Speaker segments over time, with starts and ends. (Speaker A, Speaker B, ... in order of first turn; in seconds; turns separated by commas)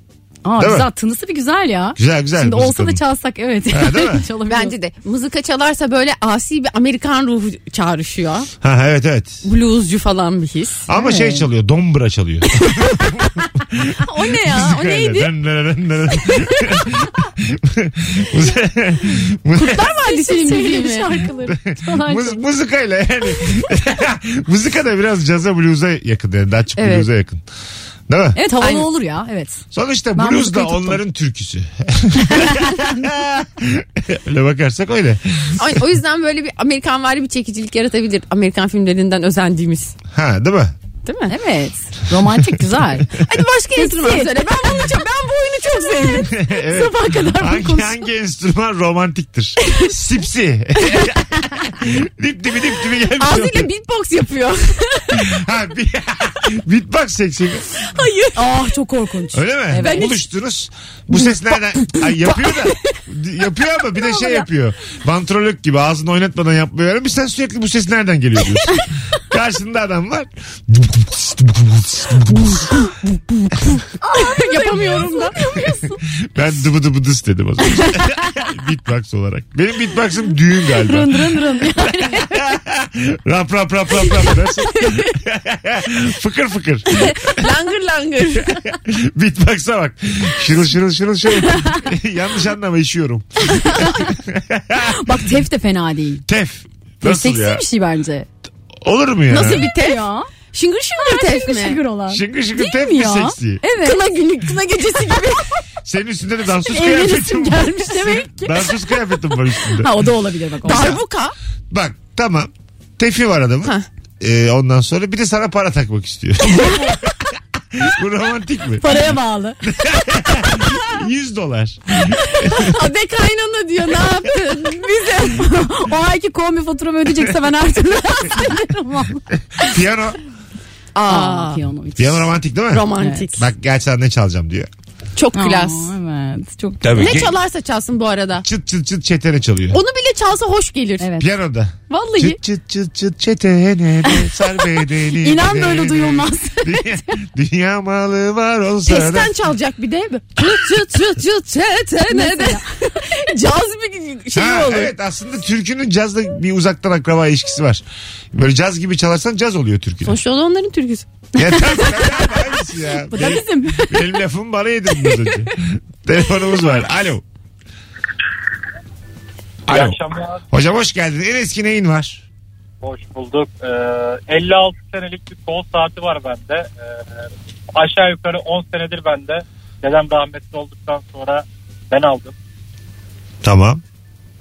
Speaker A: 0.4-4.8, Speaker B: 0.6-0.9, Speaker B: 1.9-3.0, Speaker B: 3.7-4.2, Speaker C: 4.5-8.5, Speaker B: 8.6-9.4, Speaker C: 9.4-10.9, Speaker B: 10.9-19.9, Speaker A: 10.9-11.4, Speaker C: 14.0-15.3, Speaker C: 16.3-16.5, Speaker C: 19.5-21.2, Speaker A: 19.9-22.4, Speaker B: 21.5-27.4, Speaker C: 26.8-27.1, Speaker B: 28.1-28.4, Speaker A: 28.3-29.6, Speaker C: 28.6-28.9, Speaker B: 29.7-35.8, Speaker A: 30.1-31.0, Speaker A: 32.2-32.9, Speaker C: 35.6-39.9, Speaker B: 40.1-40.8, Speaker C: 41.0-41.4, Speaker A: 41.3-43.2, Speaker C: 43.2-46.8, Speaker A: 43.7-44.5, Speaker A: 46.2-48.0, Speaker B: 46.2-53.7, Speaker C: 49.6-49.9, Speaker C: 53.2-55.4, Speaker B: 55.1-57.7, Speaker C: 57.9-58.5, Speaker A: 58.3-60.2, Speaker B: 59.3-72.7, Speaker C: 59.8-60.2, Speaker A: 74.0-75.9, Speaker C: 74.2-75.4, Speaker B: 76.3-87.3, Speaker A: 80.7-82.4, Speaker C: 86.9-88.7, Speaker B: 88.6-95.2, Speaker A: 93.6-94.1, Speaker A: 94.9-96.2, Speaker B: 96.2-97.6, Speaker A: 97.0-98.3, Speaker B: 98.8-99.7, Speaker C: 99.3-101.8, Speaker A: 99.4-100.3, Speaker A: 101.0-104.0, Speaker B: 102.1-103.6, Speaker C: 103.8-105.4, Speaker B: 105.8-110.1, Speaker A: 106.7-111.0, Speaker C: 110.6-111.3, Speaker B: 110.7-111.0, Speaker B: 111.7-119.0, Speaker A: 118.8-119.7, Speaker B: 119.6-122.8, Speaker C: 122.4-125.5, Speaker A: 125.2-129.7, Speaker B: 129.6-130.2, Speaker C: 130.9-131.6, Speaker A: 131.0-132.3, Speaker B: 132.0-134.7, Speaker C: 132.7-133.4, Speaker A: 132.9-133.3, Speaker C: 135.2-135.9, Speaker A: 135.3-137.1, Speaker B: 136.8-137.3, Speaker C: 136.9-138.4, Speaker B: 138.4-139.8, Speaker C: 139.7-141.1, Speaker A: 141.0-141.3, Speaker B: 141.2-149.3, Speaker C: 141.9-142.4, Speaker A: 145.1-147.1, Speaker C: 148.9-154.9, Speaker A: 152.1-152.7, Speaker B: 154.3-160.2, Speaker C: 160.0-161.2, Speaker B: 161.3-167.2, Speaker A: 161.5-162.3, Speaker A: 163.1-164.2, Speaker B: 169.7-170.0, Speaker D: 169.7-170.4, Speaker B: 170.5-172.2, Speaker D: 172.8-176.8, Speaker D: 177.7-182.3, Speaker B: 183.4-183.8